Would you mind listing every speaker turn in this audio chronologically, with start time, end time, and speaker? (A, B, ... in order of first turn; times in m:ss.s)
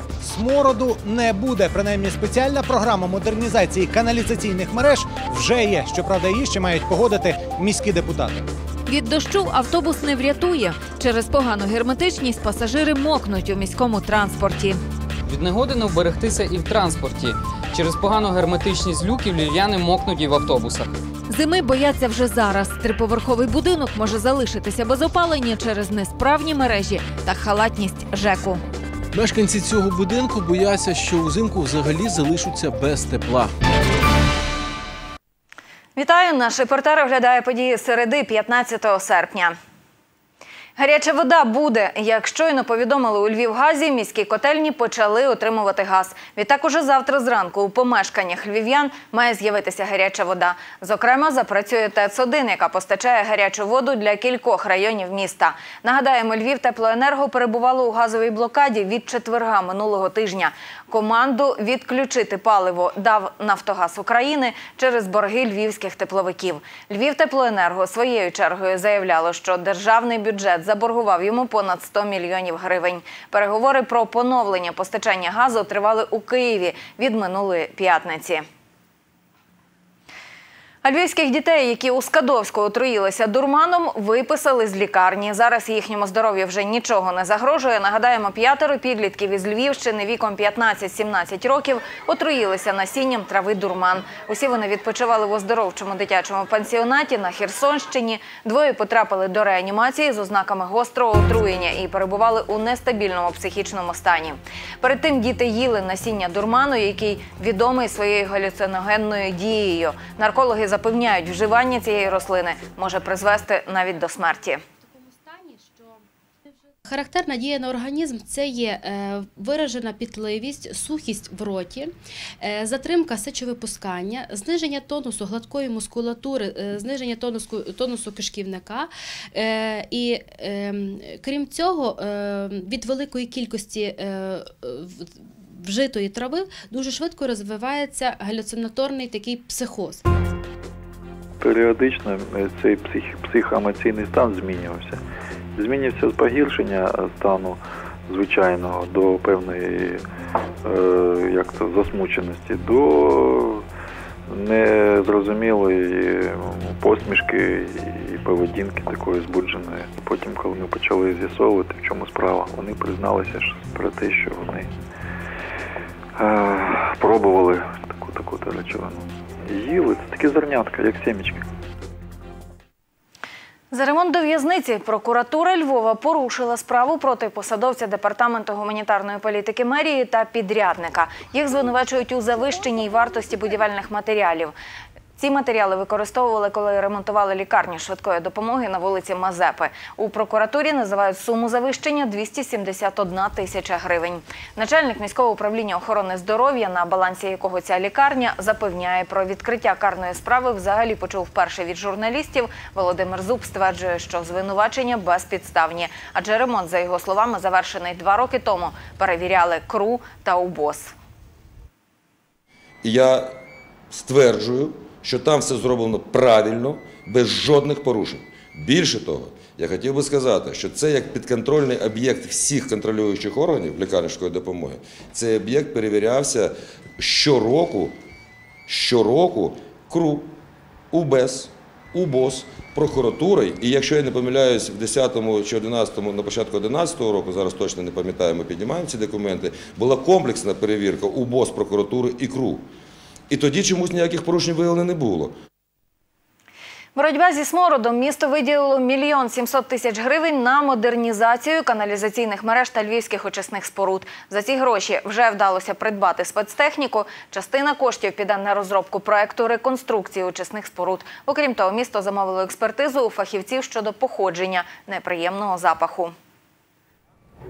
0:00.2-0:08.5 A
0:08.9-0:14.8 B
0:15.3-0:20.9 C
0:21.3-0:28.6 B
0:29.1-0:33.5 D
0:36.0-0:39.6 B
0:40.8-1:18.4 B
1:20.8-1:54.6 B
1:56.8-2:20.0 E
2:21.4-2:25.0 F
2:25.6-2:30.0 F
2:30.6-2:33.6 F
2:34.3-2:44.7 F
2:46.2-2:51.4 F
2:53.7-3:04.5 B
3:05.2-3:30.9 B
3:32.8-3:48.0 G
3:48.7-3:50.3 G
3:50.9-4:02.6 G
4:03.3-4:05.3 G
4:07.0-4:26.1 B